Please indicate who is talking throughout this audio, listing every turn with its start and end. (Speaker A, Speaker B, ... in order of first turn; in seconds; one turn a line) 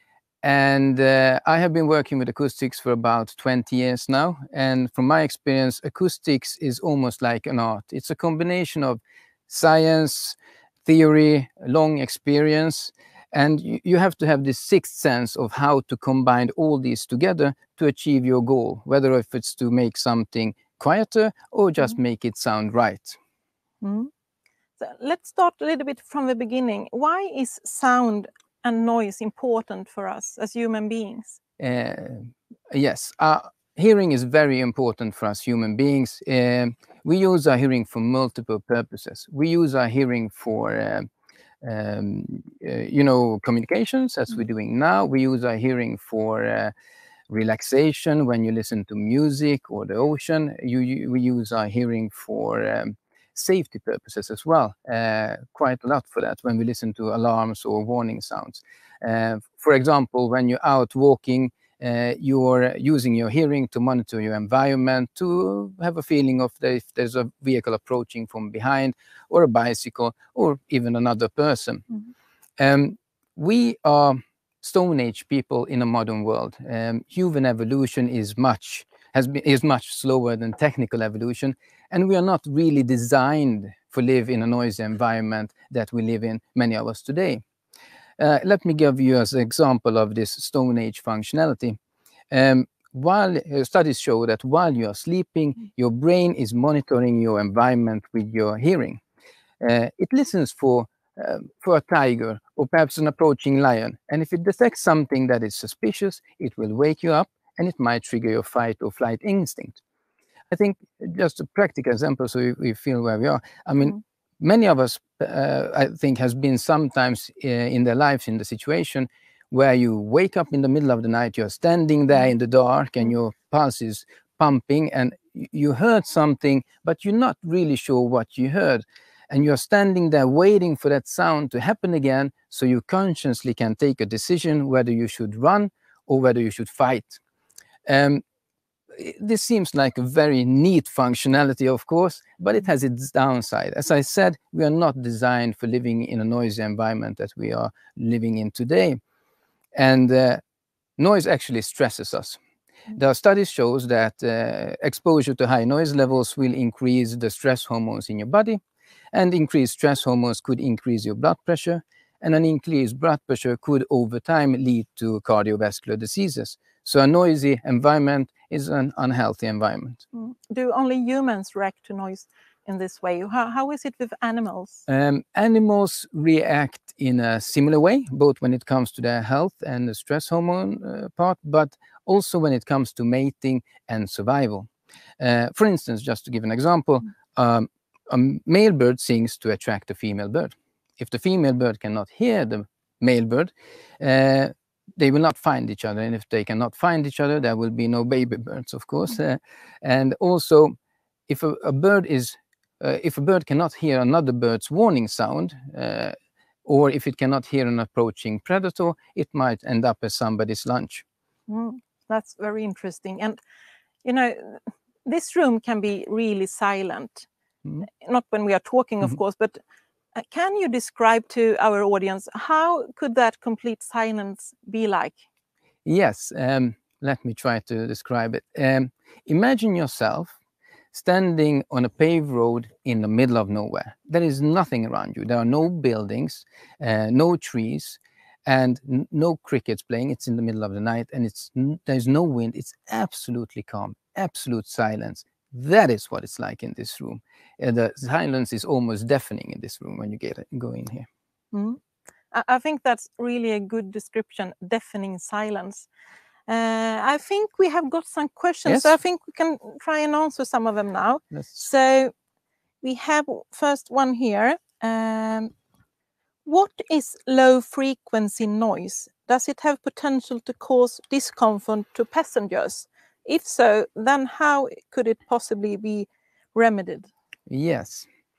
Speaker A: 0.4-23.2
Speaker B: 23.8-24.1
Speaker B: 24.8-31.4
Speaker A: 31.6-41.1
Speaker A: 41.6-46.7
Speaker A: 47.3-71.8
Speaker A: 72.6-87.4
Speaker A: 88.2-91.8
Speaker A: 92.3-99.0
Speaker A: 99.6-109.8
Speaker A: 110.5-137.2
Speaker A: 137.8-138.2
Speaker A: 138.9-149.0
Speaker A: 149.7-150.4
Speaker A: 151.0-152.4
Speaker A: 152.9-158.6
Speaker A: 159.1-170.0
Speaker B: 170.1-174.8
Speaker A: 174.9-184.7
Speaker A: 185.2-200.7
Speaker A: 201.3-211.0
Speaker B: 211.5-213.4
Speaker B: 214.0-217.3
Speaker B: 217.8-219.6
Speaker B: 220.1-225.2
Speaker A: 225.8-230.3
Speaker A: 230.9-251.1
Speaker B: 251.5-251.8
Speaker B: 252.3-255.9
Speaker B: 256.5-262.1
Speaker A: 258.6-258.9
Speaker B: 262.8-265.5
Speaker B: 266.4-277.1
Speaker A: 277.5-278.1